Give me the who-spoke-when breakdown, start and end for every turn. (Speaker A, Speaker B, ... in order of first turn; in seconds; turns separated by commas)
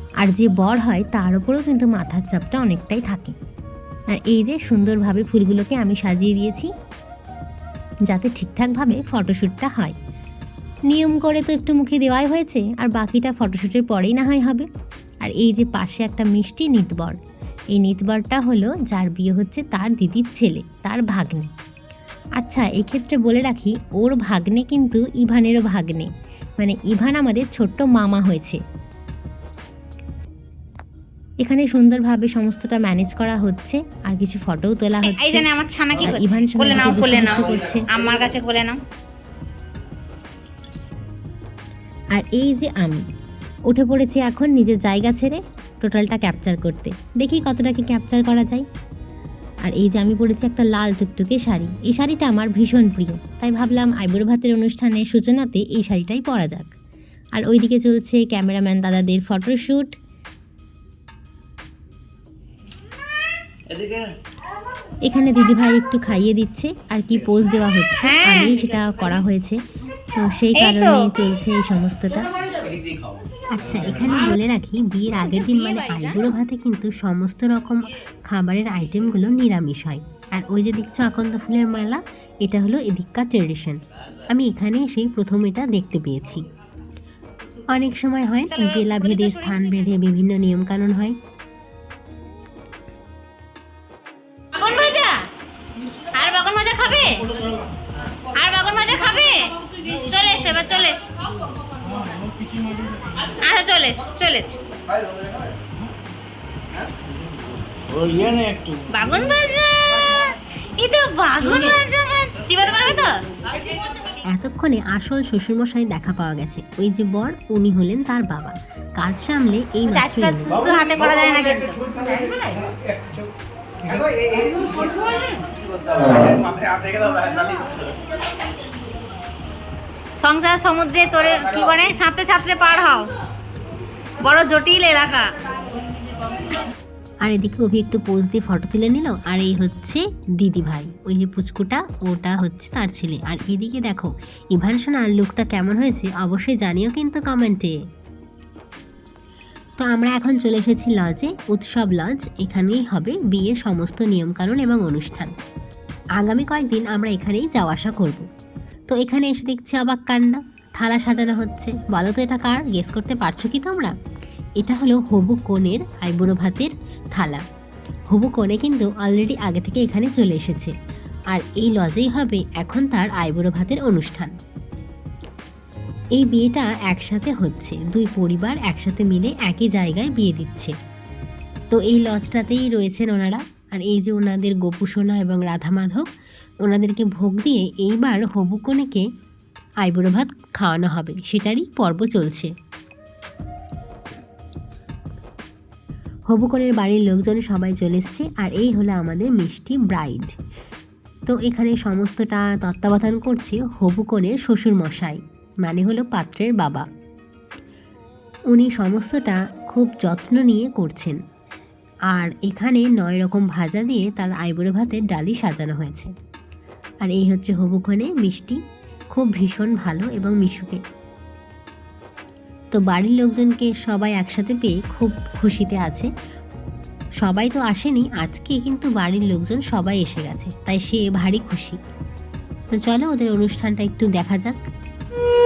Speaker A: 0.2-3.3, Speaker A: 4.1-6.7, Speaker A: 8.1-9.9, Speaker A: 10.9-14.7, Speaker A: 15.2-17.2, Speaker A: 17.8-21.5, Speaker A: 22.4-28.6, Speaker A: 31.4-35.5, Speaker B: 35.0-38.8, Speaker A: 36.0-37.9, Speaker A: 42.1-43.0, Speaker A: 43.7-48.6, Speaker A: 49.6-56.7, Speaker A: 57.4-59.9, Speaker A: 65.1-69.6, Speaker B: 68.0-68.5, Speaker A: 70.1-72.2, Speaker B: 70.5-71.1, Speaker A: 73.5-86.4, Speaker B: 75.3-76.3, Speaker A: 87.7-91.1, Speaker B: 88.5-89.7, Speaker B: 94.5-95.2, Speaker B: 96.1-97.2, Speaker B: 98.3-101.0, Speaker B: 103.4-104.6, Speaker B: 108.9-110.0, Speaker B: 110.8-113.2, Speaker A: 114.3-120.7, Speaker B: 119.9-122.6, Speaker B: 130.2-133.1, Speaker B: 134.2-135.3, Speaker A: 137.2-147.7, Speaker A: 149.8-155.3, Speaker A: 156.2-158.2, Speaker A: 158.9-163.9, Speaker A: 164.6-167.4, Speaker A: 168.1-170.7, Speaker A: 171.3-174.3, Speaker A: 176.2-180.7, Speaker A: 181.7-186.1, Speaker A: 186.7-189.0, Speaker A: 189.8-192.5, Speaker A: 196.3-200.3, Speaker A: 201.3-206.8, Speaker A: 208.5-211.2, Speaker A: 212.1-216.1, Speaker A: 217.0-218.6, Speaker A: 219.1-220.8, Speaker A: 222.7-226.1, Speaker A: 227.2-231.8, Speaker A: 232.7-234.6